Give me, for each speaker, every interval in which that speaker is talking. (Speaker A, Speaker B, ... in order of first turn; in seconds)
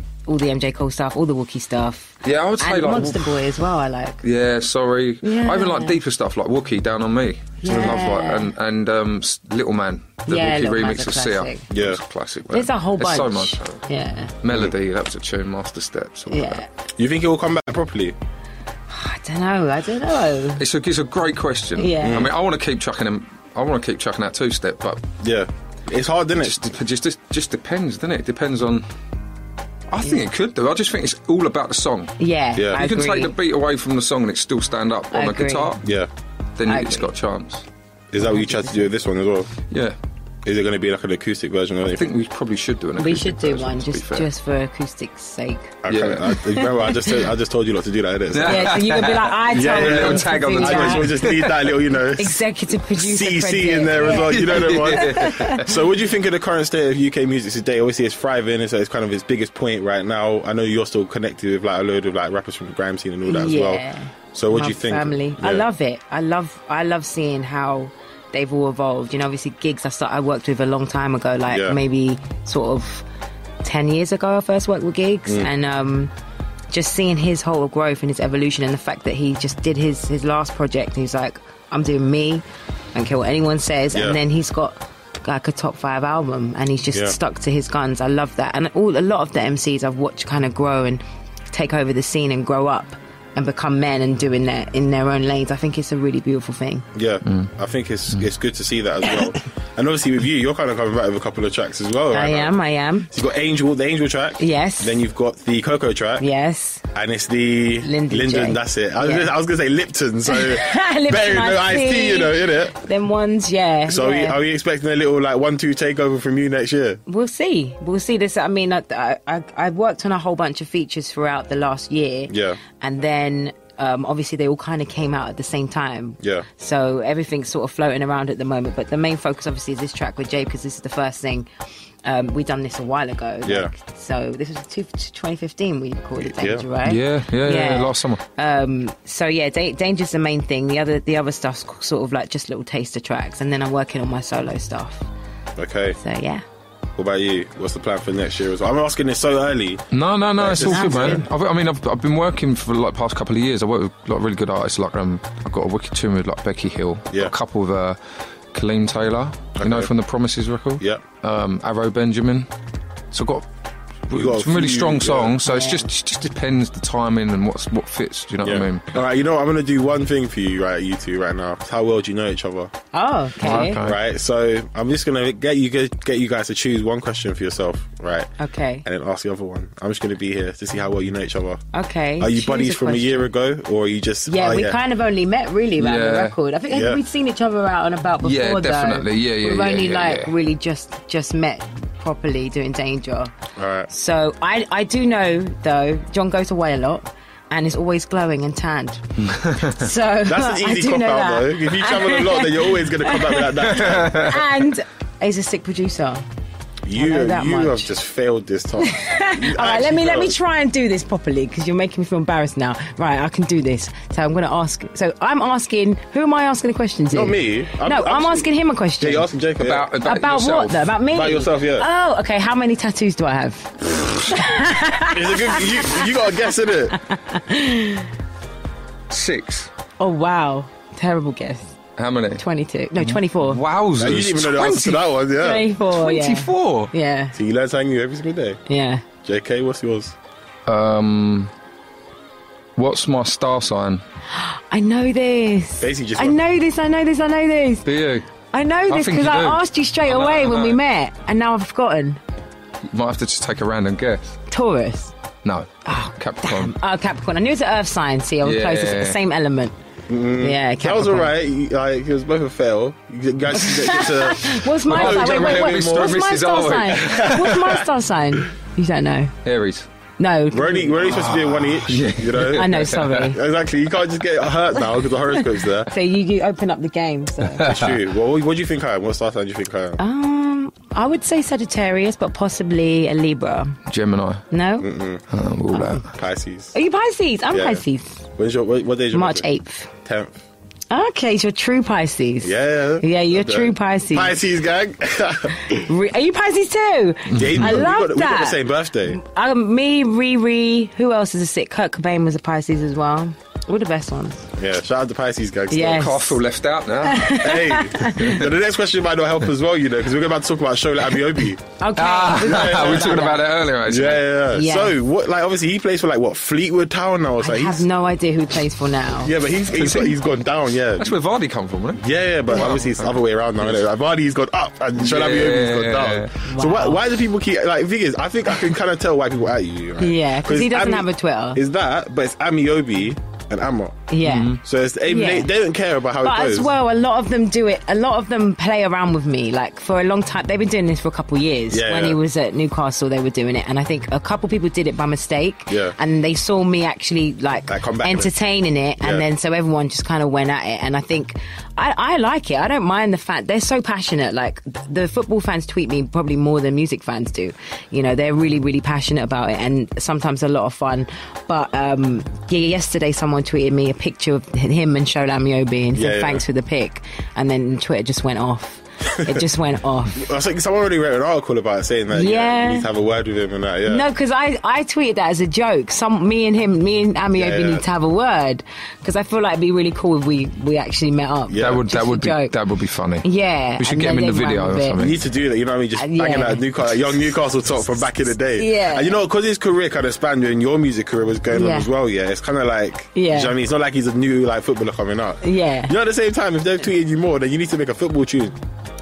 Speaker A: 0.3-4.2, 5.2-6.0, 7.6-8.5, 10.3-11.7, 12.5-14.3, 16.3-16.6, 18.9-20.6, 21.8-22.3, 32.2-33.3, 35.1-35.8, 36.6-37.1, 38.2-38.9, 43.0-45.8, 46.5-47.0, 48.5-51.1, 52.1-55.6, 63.3-73.1, 73.6-76.1, 76.7-96.8, 102.1-103.1, 104.4-105.0, 106.2-106.8, 107.8-109.3, 110.2-114.4, 117.1-131.5, 132.0-145.1, 146.0-146.4, 150.5-151.3, 165.4-165.9, 172.9-173.8, 178.4-178.8, 181.7-183.3, 184.3-193.3, 193.9-199.1, 199.6-206.2, 206.9-207.9, 208.8-219.3, 220.0-226.1, 226.9-228.1, 230.0-231.7, 232.4-233.6, 235.4-237.3, 238.7-239.0, 244.3-247.8, 248.5-252.2, 254.5-255.1, 255.9-259.8, 260.4-261.4, 263.6-269.3, 270.2-271.0, 272.5-273.4, 275.3-277.7, 280.0-283.8, 284.5-284.9, 285.7-286.0, 286.7-288.2, 289.1-289.9, 290.9-294.4, 295.7-304.4, 305.7-306.4, 307.0-308.4, 311.8-313.4, 314.5-315.0, 317.4-319.4, 322.5-322.8, 326.5-327.0, 330.0-331.6, 334.1-334.5, 335.0-335.5, 336.2-370.3, 372.1-372.9, 373.9-382.6, 383.2-385.0, 385.9-386.6, 388.6-389.2, 391.5-391.9, 393.1-393.6, 395.4-395.9
Speaker B: 2.2-3.3, 4.2-13.8, 14.4-16.6, 20.6-25.0, 26.4-28.9, 29.9-32.2, 32.7-35.9, 36.6-37.6, 39.7-40.0, 41.9-44.3, 45.9-46.6, 48.3-51.5, 54.1-55.8, 136.8-138.2, 149.9-158.0, 158.5-162.5, 163.1-163.4, 164.1-168.9, 173.4-174.0, 185.8-186.4, 188.2-190.3, 199.4-199.8, 203.9-204.3, 219.6-220.9, 229.1-229.7, 232.0-232.4, 233.0-235.0, 236.0-236.9, 240.7-241.5, 242.8-244.0, 247.8-248.3, 248.9-250.8, 252.9-254.4, 255.4-256.7, 258.4-259.2, 264.9-267.8, 269.4-269.9, 271.0-273.3, 283.9-284.4, 285.3-286.1, 297.4-297.8, 305.9-307.4, 308.1-308.5, 312.0-314.3, 319.7-320.2, 321.0-323.9, 325.0-326.3, 334.2-334.6, 381.6-385.2
Speaker C: 11.7-12.0, 17.0-18.2, 22.0-22.3, 25.2-26.6, 32.6-32.8, 35.8-36.1, 38.1-39.5, 40.5-42.1, 45.8-48.8, 49.5-52.4, 53.0-65.7, 71.5-71.8, 83.9-84.2, 97.0-102.5, 103.1-106.3, 106.9-112.8, 113.9-117.0, 122.3-122.6, 126.2-126.5, 133.4-133.7, 136.2-136.7, 145.6-146.0, 147.0-149.8, 150.4-151.2, 159.6-159.9, 164.1-165.4, 168.4-172.7, 173.4-178.3, 178.8-181.6, 182.2-184.8, 186.7-187.0, 193.6-193.9, 200.3-204.4, 206.8-210.3, 217.1-219.9, 221.1-221.9, 225.1-227.0, 234.0-235.7, 237.3-238.6, 239.2-240.2, 245.8-246.4, 260.1-266.2, 267.0-267.9, 270.5-275.9, 277.6-280.0, 284.8-285.2, 286.1-286.7, 287.5-287.8, 288.4-289.5, 290.0-290.4, 292.4-295.7, 297.4-299.2, 304.6-306.1, 307.2-311.6, 312.4-313.3, 313.9-317.9, 319.2-321.1, 322.0-334.1, 334.6-336.7, 341.7-342.2, 345.7-346.0, 347.7-348.3, 349.0-349.3, 365.9-366.4, 369.2-369.5, 370.1-374.1, 377.4-377.9, 381.5-381.8, 385.0-398.6